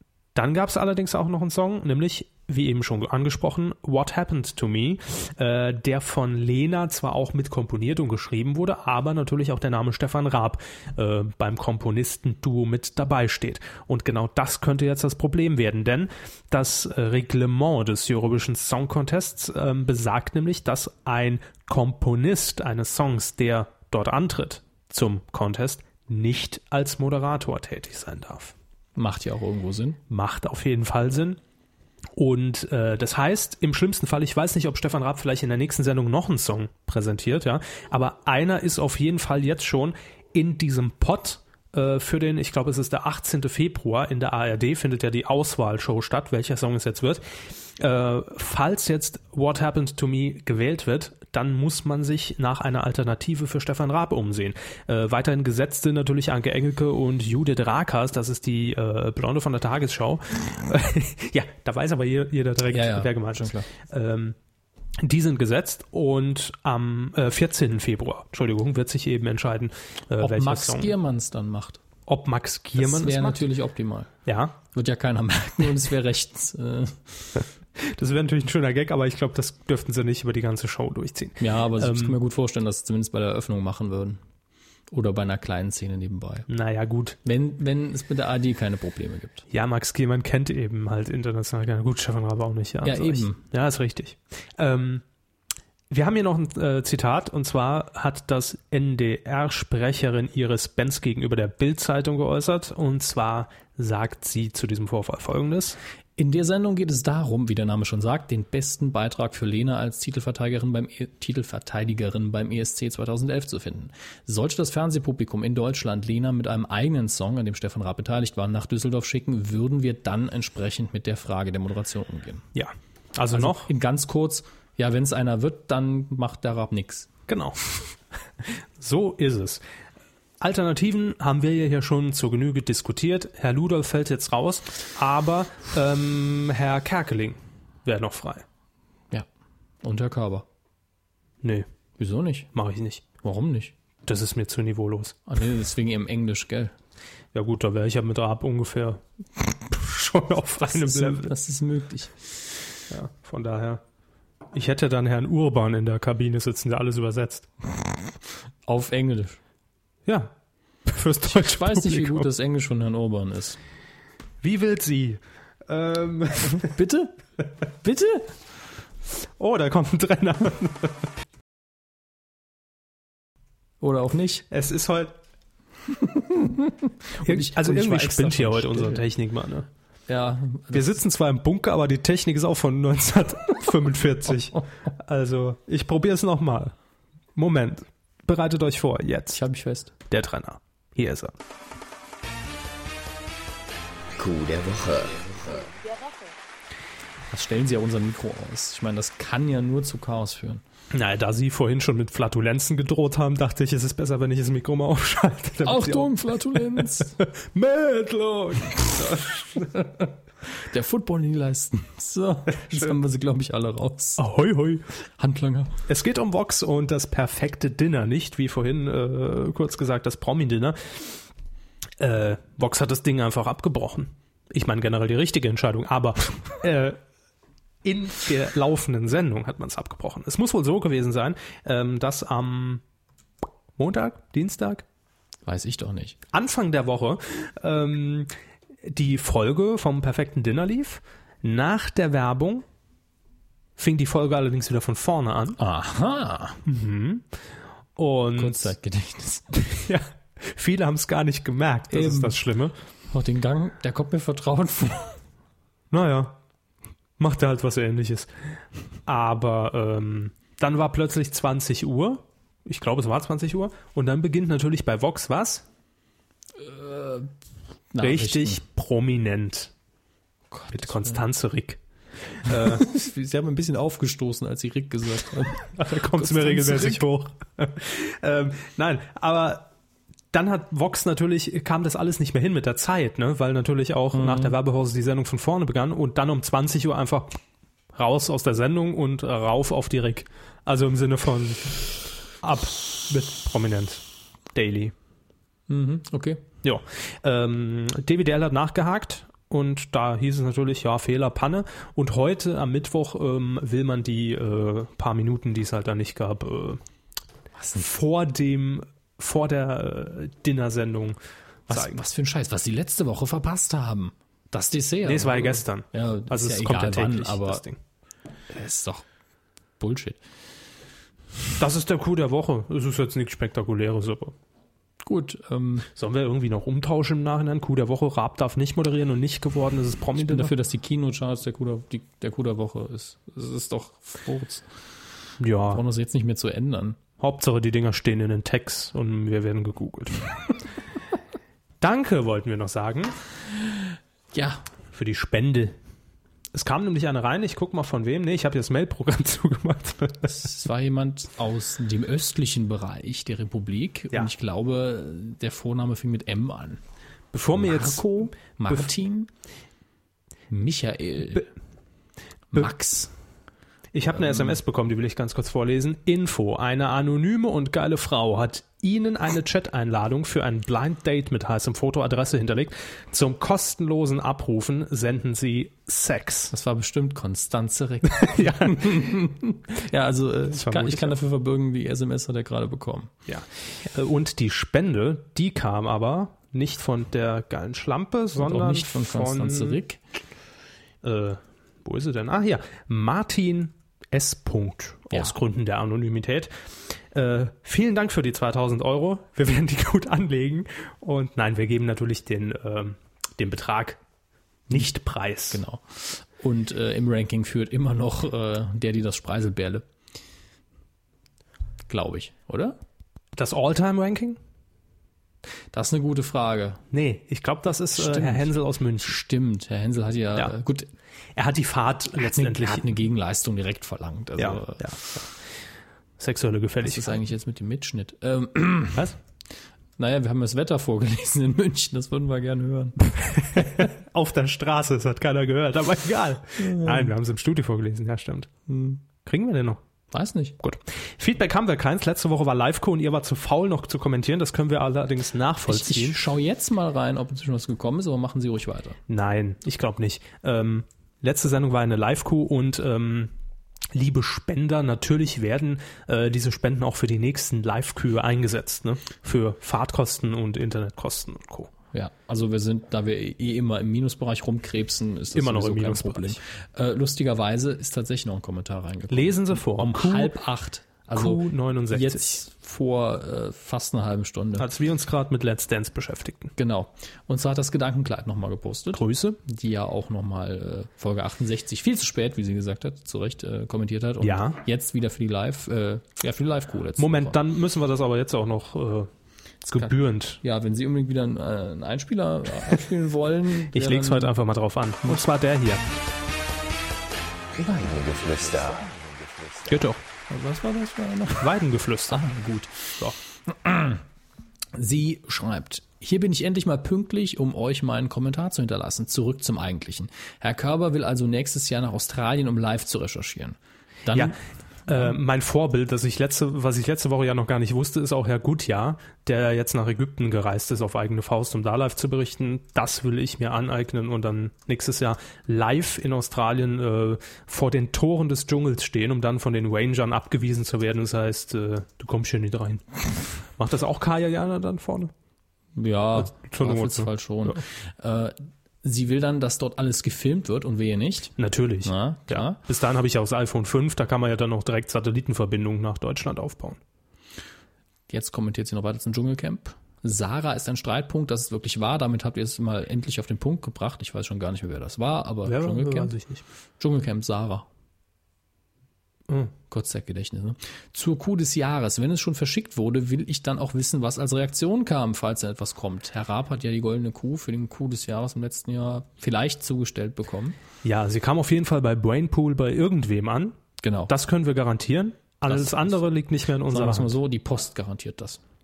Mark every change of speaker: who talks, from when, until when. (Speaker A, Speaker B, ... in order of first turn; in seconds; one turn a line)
Speaker A: 0.3-28.5
Speaker B: 28.9-30.0
Speaker A: 30.1-31.4
Speaker A: 32.1-47.2
Speaker A: 47.8-64.3
Speaker B: 62.7-63.7
Speaker A: 65.0-70.9
Speaker B: 70.2-71.8
Speaker A: 72.1-73.5
Speaker B: 72.8-74.1
Speaker A: 74.2-74.5
Speaker B: 74.7-77.4
Speaker A: 77.8-82.1
Speaker B: 81.4-84.2
Speaker B: 84.9-86.5
Speaker A: 86.5-87.2
Speaker B: 87.2-89.4
Speaker A: 89.5-95.0
Speaker B: 92.8-93.4
Speaker A: 95.9-105.8
Speaker B: 106.2-122.5
Speaker A: 122.5-123.7
Speaker B: 123.3-127.1
Speaker A: 127.3-127.6
Speaker A: 128.8-129.6
Speaker A: 130.4-138.4
Speaker B: 139.8-140.4
Speaker B: 142.0-142.5
Speaker A: 142.5-143.0
Speaker B: 143.2-143.7
Speaker A: 144.1-145.2
Speaker B: 145.3-146.7
Speaker A: 147.3-151.3
Speaker B: 150.6-152.3
Speaker A: 152.9-153.8
Speaker A: 154.5-157.5
Speaker B: 158.7-159.4
Speaker A: 160.1-160.3
Speaker A: 160.8-162.3
Speaker B: 161.4-163.6
Speaker A: 164.4-166.7
Speaker B: 166.6-167.2
Speaker B: 167.8-168.3
Speaker A: 169.4-171.1
Speaker B: 173.8-174.4
Speaker A: 174.5-175.1
Speaker B: 175.9-179.0
Speaker A: 177.2-179.7
Speaker B: 180.1-180.9
Speaker A: 180.7-186.7
Speaker A: 187.3-189.4
Speaker B: 189.3-189.9
Speaker A: 190.1-191.3
Speaker C: 194.2-195.7
Speaker B: 197.3-200.6
Speaker A: 200.9-209.7
Speaker B: 205.6-207.2
Speaker B: 209.7-214.2
Speaker A: 214.2-214.8
Speaker B: 215.2-215.7
Speaker A: 215.9-221.1
Speaker A: 222.0-227.0
Speaker A: 227.8-232.8
Speaker A: 233.8-234.8
Speaker B: 235.4-236.2
Speaker A: 236.3-238.3
Speaker A: 238.8-242.6
Speaker A: 243.8-245.6
Speaker B: 245.6-246.6
Speaker A: 246.7-247.2
Speaker A: 247.9-248.7
Speaker B: 248.4-249.7
Speaker A: 249.6-252.7
Speaker B: 251.9-252.4
Speaker B: 253.1-255.2
Speaker A: 255.9-256.3
Speaker A: 257.2-265.6
Speaker B: 266.6-267.3
Speaker B: 267.9-268.6
Speaker A: 268.0-269.7
Speaker B: 270.5-271.2
Speaker A: 270.7-271.8
Speaker A: 272.3-272.8
Speaker B: 272.5-277.0
Speaker A: 275.8-279.6
Speaker A: 280.3-287.4
Speaker B: 284.1-284.5
Speaker A: 287.9-291.9
Speaker A: 292.4-294.0
Speaker A: 294.5-294.9
Speaker B: 295.7-296.4
Speaker A: 296.6-306.8
Speaker B: 307.5-307.9
Speaker A: 307.8-311.2
Speaker A: 311.7-312.0
Speaker B: 311.7-317.6
Speaker A: 315.0-317.8
Speaker B: 318.5-319.0
Speaker B: 319.8-320.2
Speaker A: 321.6-324.3
Speaker B: 325.0-325.9
Speaker A: 325.9-330.5
Speaker B: 330.2-334.6
Speaker A: 335.4-335.8
Speaker B: 335.7-337.0
Speaker A: 337.2-340.3
Speaker A: 341.8-343.1
Speaker B: 344.3-344.6
Speaker A: 344.9-345.8
Speaker A: 346.5-350.3
Speaker B: 350.3-356.8
Speaker A: 357.3-358.8
Speaker B: 357.5-359.3
Speaker B: 360.5-361.5
Speaker B: 362.5-363.1
Speaker A: 363.9-376.5
Speaker B: 364.1-364.6
Speaker B: 376.5-383.1
Speaker A: 378.1-379.1
Speaker A: 380.5-381.1
Speaker A: 383.3-389.8
Speaker B: 388.4-390.0
Speaker A: 391.0-396.5
Speaker A: 397.1-404.0
Speaker A: 404.7-405.6
Speaker B: 405.5-409.9
Speaker B: 411.9-412.8
Speaker A: 413.4-414.4
Speaker B: 415.7-416.8
Speaker A: 416.9-419.2
Speaker B: 417.9-420.9
Speaker A: 421.4-422.9
Speaker B: 422.1-425.2
Speaker A: 424.4-425.3
Speaker A: 426.2-427.2
Speaker B: 426.8-429.1
Speaker B: 430.0-433.0
Speaker A: 433.1-438.5
Speaker B: 436.6-437.1
Speaker B: 438.7-439.0
Speaker A: 439.2-439.8
Speaker B: 440.1-440.6
Speaker A: 440.6-446.2
Speaker B: 445.7-449.0
Speaker A: 449.1-453.3
Speaker A: 453.9-461.7
Speaker B: 461.9-474.7
Speaker A: 465.3-466.4
Speaker A: 469.1-470.4
Speaker A: 471.1-472.3
Speaker A: 474.6-476.5
Speaker B: 476.6-487.4
Speaker A: 478.9-479.4
Speaker A: 484.2-484.6
Speaker A: 487.0-489.1
Speaker A: 489.6-490.4
Speaker B: 489.8-494.3
Speaker A: 493.7-495.8
Speaker C: 497.5-499.8
Speaker B: 499.8-501.5
Speaker A: 501.4-502.2
Speaker B: 502.1-504.0
Speaker B: 504.7-514.3
Speaker B: 514.9-515.2
Speaker A: 514.9-533.0
Speaker A: 533.5-535.1
Speaker B: 535.8-541.3
Speaker A: 536.1-537.6
Speaker A: 541.4-546.8
Speaker B: 541.8-542.6
Speaker B: 548.1-556.1
Speaker A: 555.4-556.4
Speaker B: 556.8-557.7
Speaker B: 559.7-570.6
Speaker A: 570.8-573.5
Speaker B: 573.8-574.1
Speaker A: 574.1-577.1
Speaker B: 575.5-576.0
Speaker B: 576.7-578.4